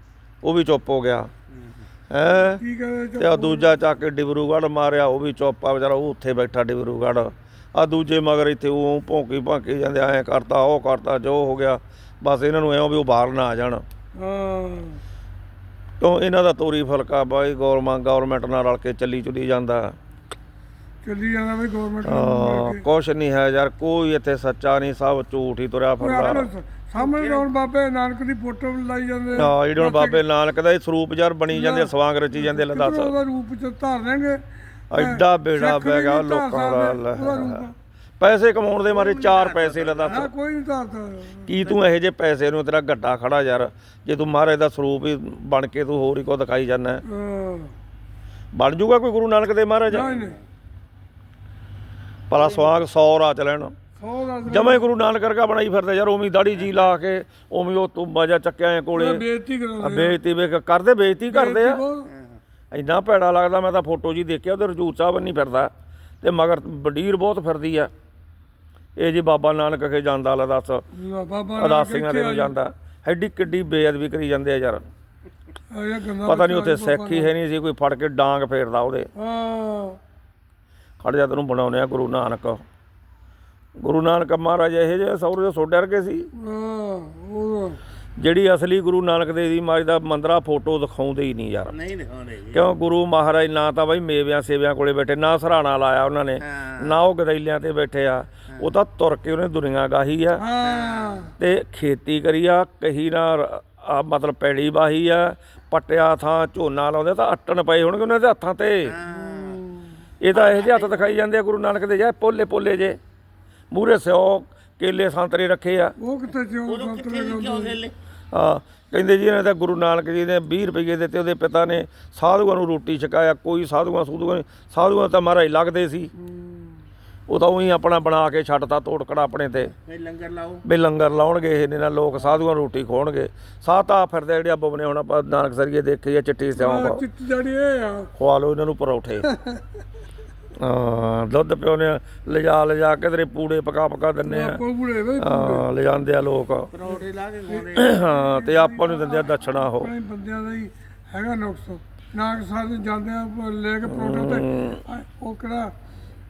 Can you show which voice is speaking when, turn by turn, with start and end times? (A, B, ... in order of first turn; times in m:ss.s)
0:00.4-0:01.3 A
0:01.5-0:01.8 B
0:02.1-0:02.6 A
0:02.3-0:03.7 C
0:03.2-0:13.8 A
0:14.2-0:15.0 C
0:16.0-0:19.9 A
0:21.0-0:22.8 C
0:22.0-0:26.5 A
0:26.0-0:30.2 C
0:27.0-0:27.5 B
0:29.4-0:33.1 A
0:31.5-0:37.7 C
0:34.9-0:40.3 A
0:38.9-0:40.3 B
0:40.0-0:41.8 C
0:41.5-0:47.0 A
0:47.0-0:47.7 C
0:48.5-0:50.1 A
0:49.9-0:50.4 C
0:50.0-0:50.4 B
0:52.3-0:53.7 A
0:52.3-0:52.7 B
0:54.0-0:54.9 C
0:54.4-0:59.2 A
0:58.9-1:00.2 C
0:59.8-1:01.8 A
1:01.3-1:02.1 C
1:02.1-1:02.4 B
1:02.7-1:05.7 A
1:06.2-1:07.9 A
1:09.0-1:10.8 A
1:10.9-1:12.5 C
1:11.6-1:14.8 A
1:15.7-1:17.3 C
1:16.2-1:19.1 A
1:19.2-1:20.0 C
1:21.0-1:22.6 A
1:23.8-1:26.3 A
1:26.3-1:27.8 C
1:28.2-1:31.7 A
1:31.7-1:32.7 B
1:32.5-1:40.4 A
1:36.4-1:37.0 B
1:40.4-1:41.3 C
1:40.6-1:41.3 B
1:41.4-1:48.9 A
1:48.8-1:49.6 B
1:49.1-1:49.9 C
1:50.2-1:53.0 A
1:50.3-1:51.1 B
1:53.7-1:55.9 A
1:56.0-1:57.8 C
1:56.7-1:58.0 B
1:58.3-2:06.1 A
2:06.2-2:06.8 C
2:07.3-2:09.7 A
2:09.8-2:10.6 B
2:10.6-2:17.0 A
2:16.6-2:18.1 C
2:18.2-2:19.3 A
2:19.3-2:19.6 C
2:20.6-2:24.6 A
2:24.3-2:25.6 C
2:25.2-2:26.7 A
2:26.7-2:28.0 B
2:26.9-2:35.7 C
2:27.8-2:29.9 A
2:33.8-2:34.8 A